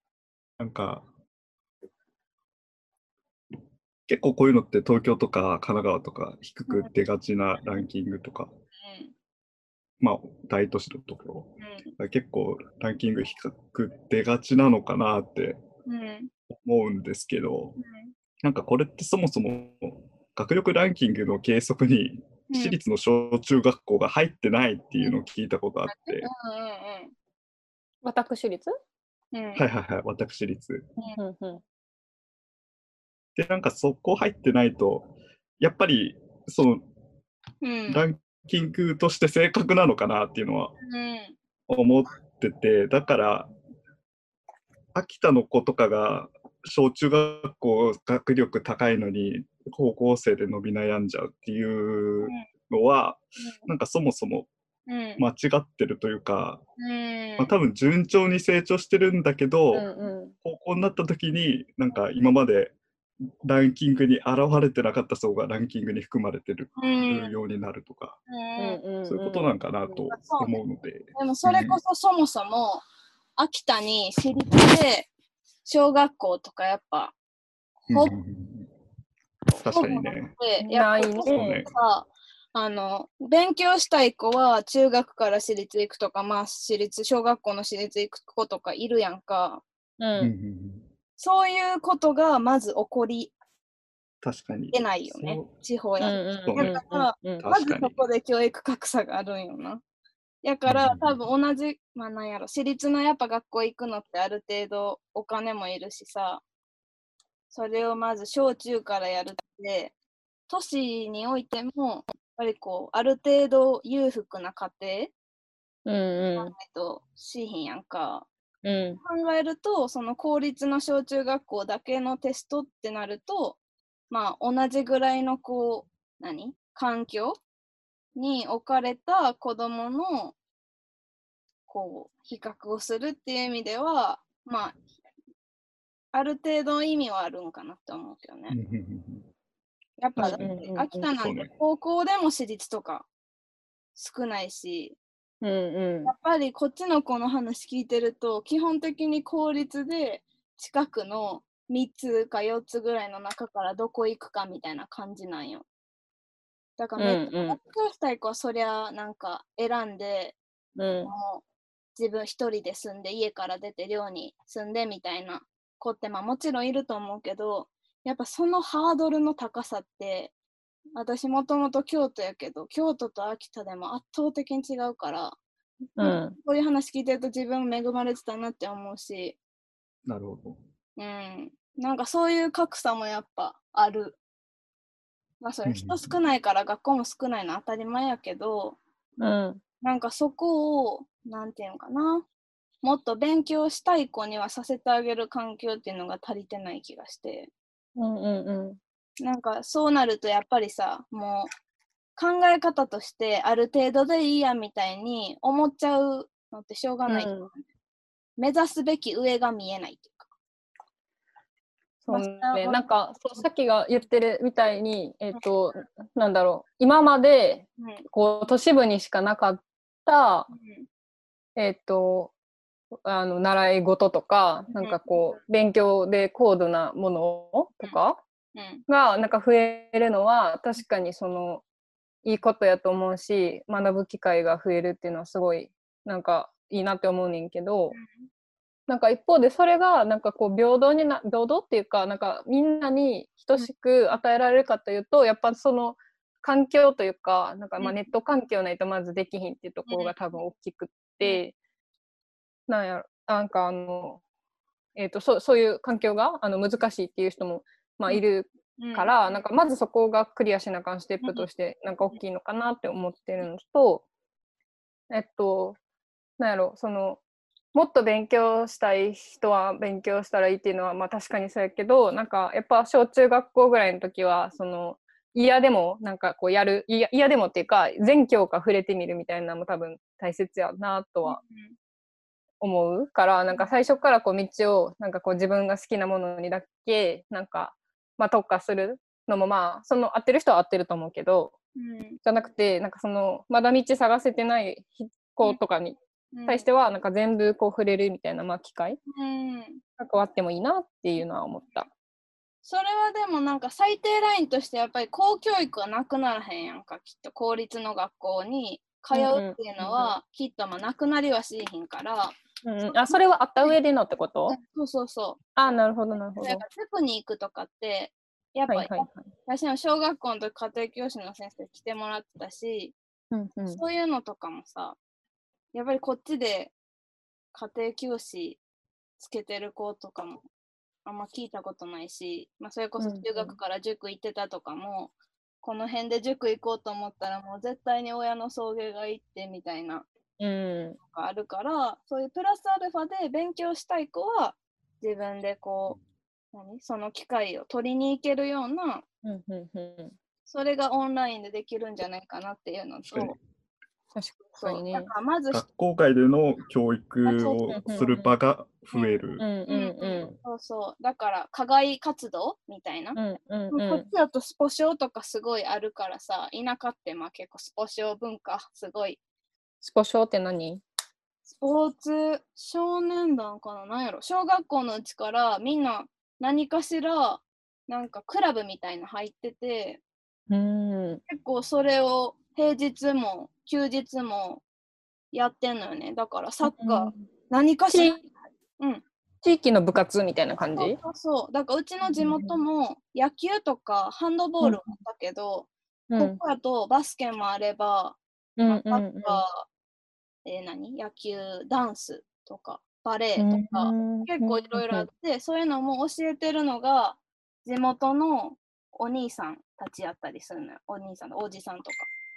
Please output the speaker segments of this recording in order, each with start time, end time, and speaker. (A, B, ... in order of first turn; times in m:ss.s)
0:00.6-0:01.0 A
0:04.1-0:08.5 A
0:08.8-0:09.1 B
0:10.0-0:15.6 A
0:11.6-0:11.9 B
0:15.8-0:16.3 B
0:16.5-0:17.8 A
0:17.8-0:18.1 B
0:18.4-0:26.3 A
0:22.5-0:22.8 B
0:25.9-0:27.1 B
0:28.0-0:28.7 C
0:29.3-0:29.6 B
0:29.6-0:30.9 A
0:31.0-0:31.6 C
0:33.3-0:36.8 A
0:37.6-0:38.0 B
0:37.9-0:40.7 A
0:40.8-0:41.4 B
0:41.7-0:43.5 A
0:44.9-0:54.5 A
0:53.4-0:53.7 B
0:54.9-0:55.2 B
0:55.2-0:56.6 A
0:56.8-0:57.5 B
0:57.4-0:59.8 A
0:59.7-1:00.3 C
1:00.4-1:02.7 A
1:03.4-1:08.2 A
1:06.8-1:07.4 B
1:08.3-1:08.8 B
1:08.6-1:10.0 C
1:09.0-1:11.8 A
1:10.1-1:10.6 B
1:11.1-1:12.8 B
1:13.4-1:15.1 B
1:15.6-1:17.1 B
1:17.9-1:18.7 A
1:19.6-1:20.3 A
1:19.6-1:29.6 B
1:20.6-1:21.6 C
1:21.3-1:21.7 A
1:30.0-1:30.3 C
1:30.2-1:30.9 A
1:31.2-1:33.3 B
1:34.2-1:35.5 A
1:34.7-1:39.8 B
1:36.0-1:37.5 C
1:36.4-1:36.8 A
1:37.4-1:38.0 A
1:40.4-1:46.4 B
1:40.7-1:41.2 A
1:47.5-1:49.9 B
1:50.5-1:55.1 B
1:55.8-1:56.5 C
1:56.4-1:58.3 B
1:58.6-1:59.0 C
1:59.0-2:03.6 B
2:04.1-2:07.4 B
2:08.2-2:10.3 B
2:11.7-2:14.8 B
2:16.1-2:18.6 B
2:18.5-2:19.3 A
2:20.0-2:23.1 B
2:20.2-2:20.5 A
2:20.2-2:21.0 C
2:21.1-2:21.5 A
2:24.0-2:25.0 B
2:25.4-2:26.1 C
2:26.0-2:35.6 B
2:36.8-2:40.4 B
2:37.0-2:37.6 C
2:40.8-2:41.1 C
2:41.0-2:41.4 B
2:42.0-2:50.3 B
2:51.0-2:55.4 B
2:56.0-2:56.4 C
2:56.0-2:59.4 B
3:00.0-3:00.6 A
3:01.0-3:04.2 B
3:05.4-3:08.8 B
3:05.6-3:06.0 A
3:09.2-3:09.6 C
3:09.8-3:12.3 B
3:12.8-3:17.5 B
3:18.0-3:18.8 C
3:19.2-3:21.5 B
3:22.2-3:27.6 B
3:27.1-3:27.5 C
3:28.4-3:30.3 B
3:32.0-3:40.5 C
3:32.1-3:32.8 B
3:37.8-3:38.0 B
3:40.5-3:40.8 B
3:41.6-3:42.3 C
3:43.0-3:48.2 C
3:44.7-3:45.0 B
3:48.5-3:48.8 B
3:48.9-3:51.6 C
3:52.2-3:58.0 C
3:57.9-3:58.2 B
3:58.9-4:11.5 C
4:09.9-4:10.1 B
4:12.7-4:14.2 C
4:15.0-4:24.0 C
4:18.8-4:19.1 B
4:25.1-4:25.8 C
4:26.4-4:27.2 C
4:27.7-4:41.4 C
4:41.2-4:41.7 B
4:42.6-4:51.5 C
4:51.8-4:52.2 B
4:52.2-4:59.0 C
4:56.3-4:56.6 B
4:59.1-4:59.8 B
5:00.0-5:01.9 C
5:02.6-5:13.8 B
5:09.1-5:10.1 C
5:12.6-5:14.6 C
5:14.5-5:15.7 B
5:15.6-5:16.6 C
5:16.4-5:22.9 B
5:18.7-5:19.3 C
5:23.3-5:23.8 C
5:23.7-5:25.0 B
5:25.7-5:26.7 B
5:27.5-5:28.6 B
5:29.2-5:30.4 B
5:31.0-5:40.1 B
5:33.0-5:33.6 C
5:40.4-5:41.0 C
5:41.0-5:46.0 B
5:46.5-5:49.0 B
5:49.2-5:50.1 C
5:50.5-5:53.4 B
5:53.1-5:53.4 A
5:54.1-5:55.1 C
5:54.6-5:55.6 B
5:55.5-5:59.4 A
5:57.2-5:57.8 B
5:57.7-5:58.3 C
5:59.4-6:00.4 C
5:59.7-6:03.2 B
6:03.1-6:04.1 C
6:03.7-6:09.2 B
6:09.8-6:10.8 C
6:11.5-6:20.0 B
6:20.5-6:21.2 C
6:21.3-6:24.6 B
6:25.3-6:28.2 B
6:26.6-6:27.3 C
6:27.9-6:28.2 C
6:28.8-6:29.0 B
6:29.4-6:31.0 C
6:30.8-6:39.6 B
6:32.0-6:32.6 C
6:34.6-6:35.0 C
6:36.1-6:36.4 C
6:38.6-6:39.4 C
6:40.4-6:52.1 B
6:43.4-6:45.1 C